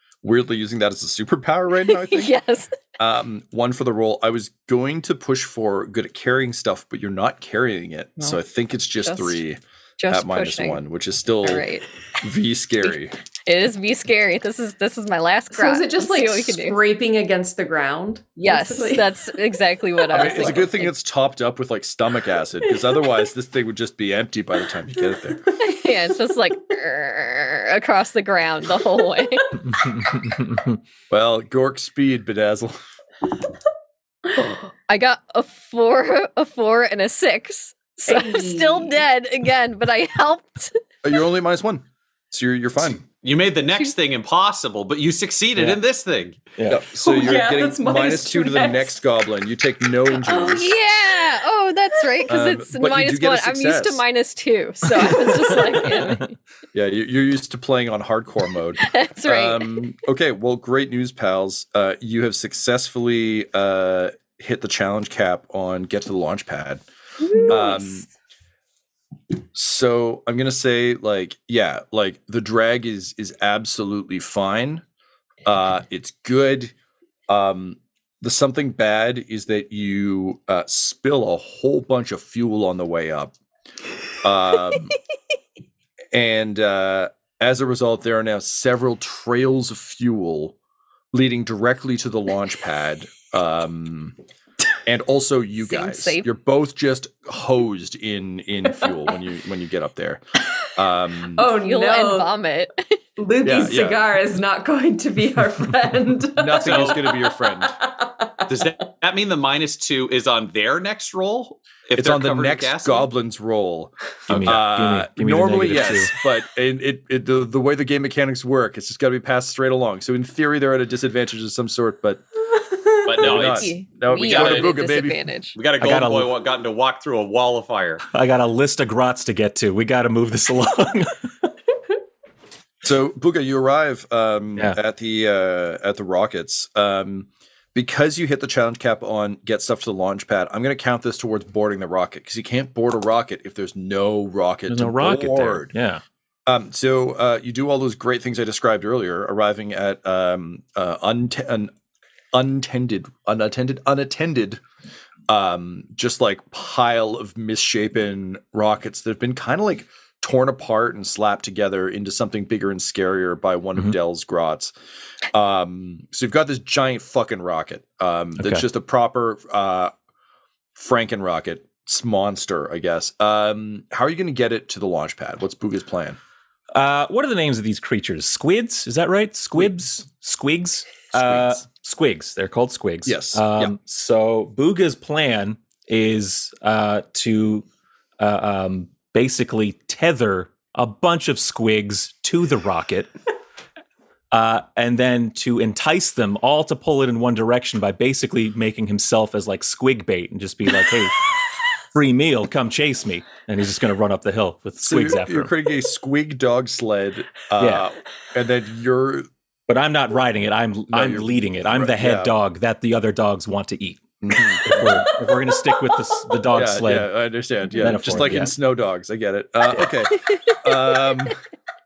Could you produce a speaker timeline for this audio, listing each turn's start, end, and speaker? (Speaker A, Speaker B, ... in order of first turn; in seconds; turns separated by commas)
Speaker A: 0.2-2.4, Speaker B: 1.8-2.7, Speaker A: 3.0-11.7, Speaker B: 9.0-9.4, Speaker B: 10.0-10.8, Speaker B: 11.4-11.8, Speaker A: 12.2-13.2, Speaker B: 13.5-16.9, Speaker C: 15.5-19.1, Speaker B: 18.4-20.9, Speaker A: 20.1-25.5, Speaker C: 20.2-20.6, Speaker B: 25.6-29.6, Speaker A: 31.1-32.8, Speaker B: 34.9-40.8, Speaker C: 38.0-39.1, Speaker A: 41.0-43.0, Speaker D: 43.2-46.5, Speaker E: 45.5-45.8, Speaker E: 46.6-46.9, Speaker A: 46.7-50.8, Speaker C: 46.9-49.0, Speaker B: 50.3-56.4, Speaker C: 50.3-50.6, Speaker A: 52.3-54.0, Speaker C: 55.0-55.9, Speaker A: 56.7-66.8, Speaker B: 58.8-59.9, Speaker C: 67.3-68.0, Speaker B: 67.3-67.7, Speaker A: 67.5-68.1, Speaker A: 69.5-74.8, Speaker A: 75.5-76.7, Speaker A: 77.3-83.3, Speaker A: 84.2-85.0, Speaker A: 86.1-90.6, Speaker A: 91.1-94.2, Speaker A: 94.8-100.2, Speaker B: 95.6-96.3, Speaker A: 100.8-101.5, Speaker C: 101.4-102.3, Speaker B: 101.5-103.0, Speaker C: 103.2-108.5, Speaker A: 103.4-104.1, Speaker A: 106.4-107.7, Speaker D: 106.6-107.1, Speaker D: 108.5-113.1, Speaker A: 112.0-122.2, Speaker E: 114.3-116.1, Speaker D: 114.3-114.6, Speaker D: 123.1-124.8, Speaker A: 123.2-125.2, Speaker B: 123.3-125.6, Speaker D: 125.6-128.0, Speaker E: 125.8-126.3, Speaker E: 128.1-131.5, Speaker A: 132.8-145.7, Speaker E: 144.7-146.0, Speaker A: 146.5-151.7, Speaker A: 152.3-154.6, Speaker A: 155.3-164.7, Speaker A: 165.3-169.9, Speaker E: 168.4-168.6, Speaker A: 170.8-176.2, Speaker E: 176.7-187.7, Speaker A: 181.1-181.6, Speaker A: 183.1-183.8, Speaker E: 188.2-193.1, Speaker E: 194.3-201.2, Speaker E: 201.9-205.5, Speaker A: 204.8-209.3, Speaker E: 207.6-207.9, Speaker E: 209.7-217.1, Speaker A: 210.9-212.4, Speaker A: 214.2-215.1, Speaker A: 216.5-221.4, Speaker E: 217.7-218.6